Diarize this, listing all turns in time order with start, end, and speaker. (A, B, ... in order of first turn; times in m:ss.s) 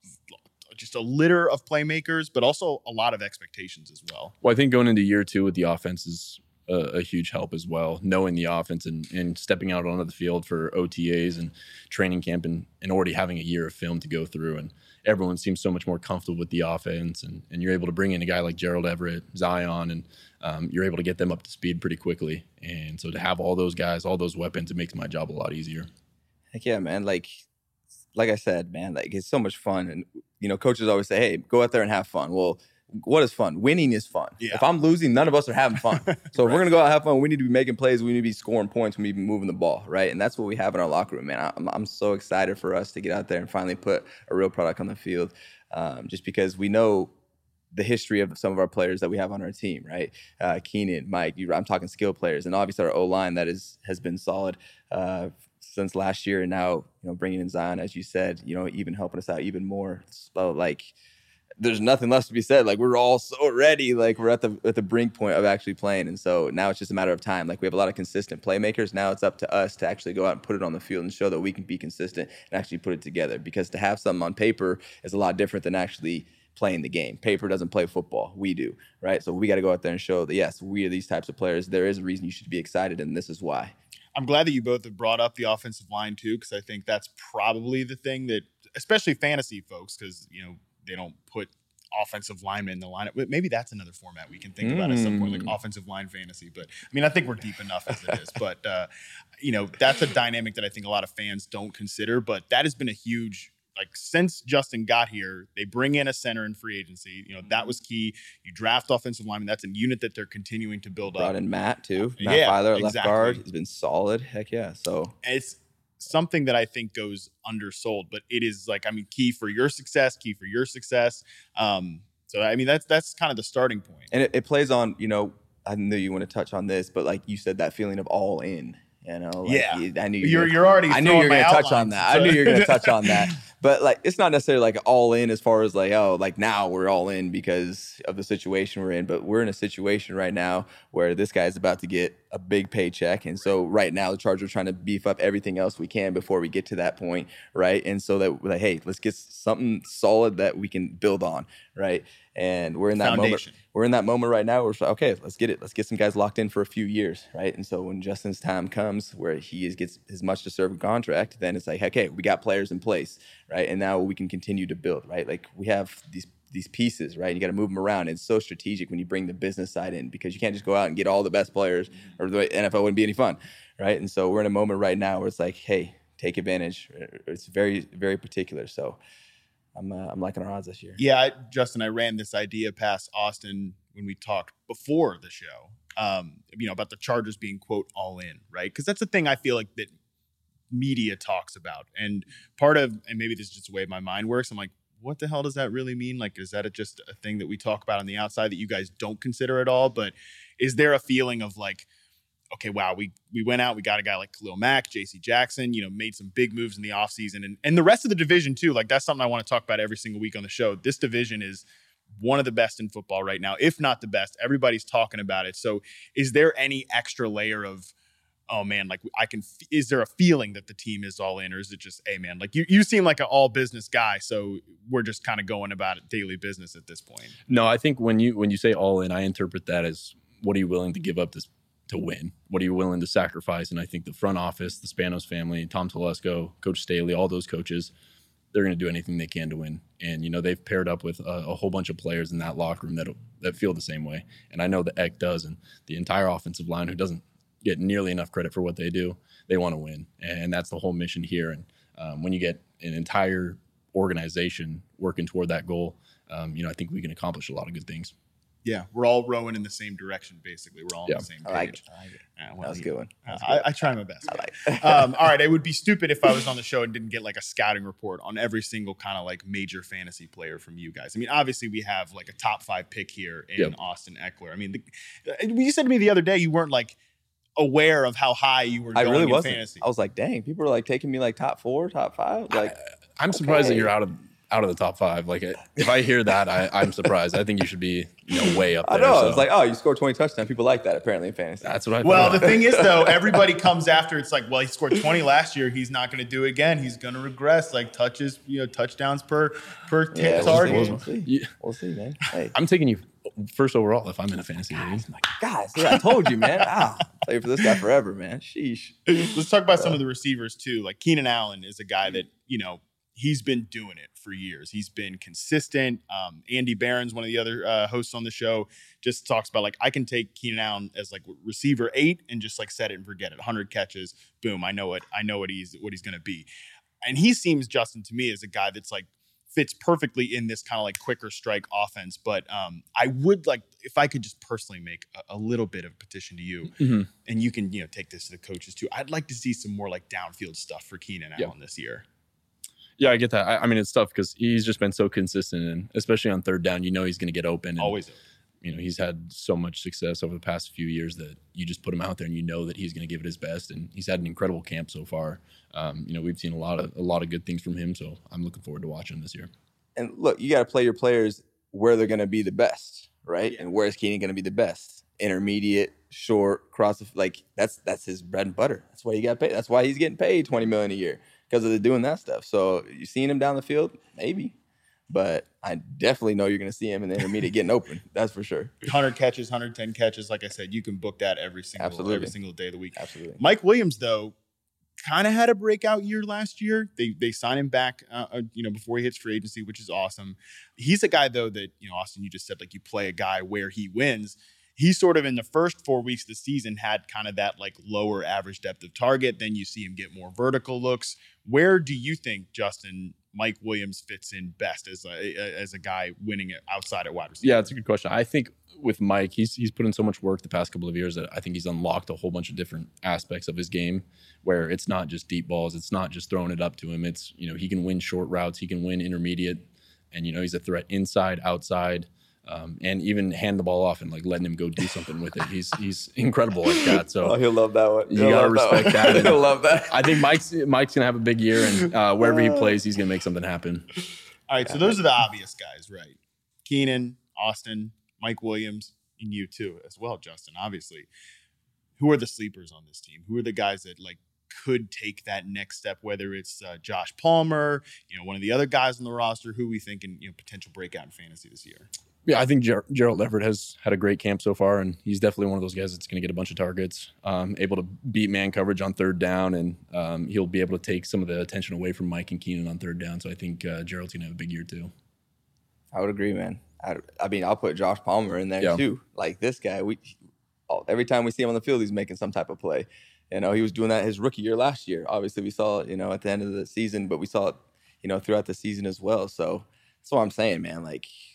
0:00.7-0:04.3 A
0:04.4-0:25.9 B
0:26.5-0:27.4 C
0:28.2-0:47.1 C
0:36.1-0:36.6 A
0:47.7-1:00.9 C
1:01.6-1:23.8 C
1:24.2-1:38.9 A
1:34.6-1:35.6 C
1:39.4-1:51.4 A
1:51.1-1:55.2 C
1:52.2-1:53.4 A
1:55.2-2:04.1 A
2:04.1-2:59.0 C
2:09.5-2:13.3 A
2:33.0-2:33.6 A
2:59.8-3:01.0 C
3:01.0-3:09.9 A
3:10.7-3:21.9 A
3:22.5-3:31.6 A
3:32.2-3:37.9 A
3:38.5-3:47.4 A
3:47.5-3:57.9 B
3:58.5-4:18.1 B
4:18.6-4:21.8 A
4:21.4-4:25.2 C
4:22.4-4:37.0 A
4:37.6-4:39.8 A
4:39.0-4:42.8 C
4:42.6-4:49.5 B
4:43.4-4:43.9 C
4:48.8-4:53.3 C
4:51.6-4:52.6 B
4:52.0-5:01.0 A
5:00.1-5:02.6 C
5:00.3-5:01.5 B
5:02.6-5:05.1 B
5:05.2-5:09.3 C
5:09.2-5:26.5 A
5:27.0-5:42.0 A
5:36.8-5:37.1 B
5:43.0-5:48.0 B
5:47.8-5:48.2 A
5:48.6-5:59.5 B
6:00.0-6:14.6 C
6:15.1-6:18.8 C
6:18.8-6:24.3 A
6:21.8-6:22.3 C
6:23.0-6:23.4 C
6:25.0-6:47.7 A
6:47.4-7:07.4 B
7:06.7-7:10.2 C
7:08.1-7:13.9 B
7:12.3-7:12.7 C
7:14.5-7:21.1 A
7:14.7-7:15.0 C
7:22.0-7:31.9 A
7:32.2-7:44.9 B
7:45.9-7:50.2 C
7:50.7-8:01.1 C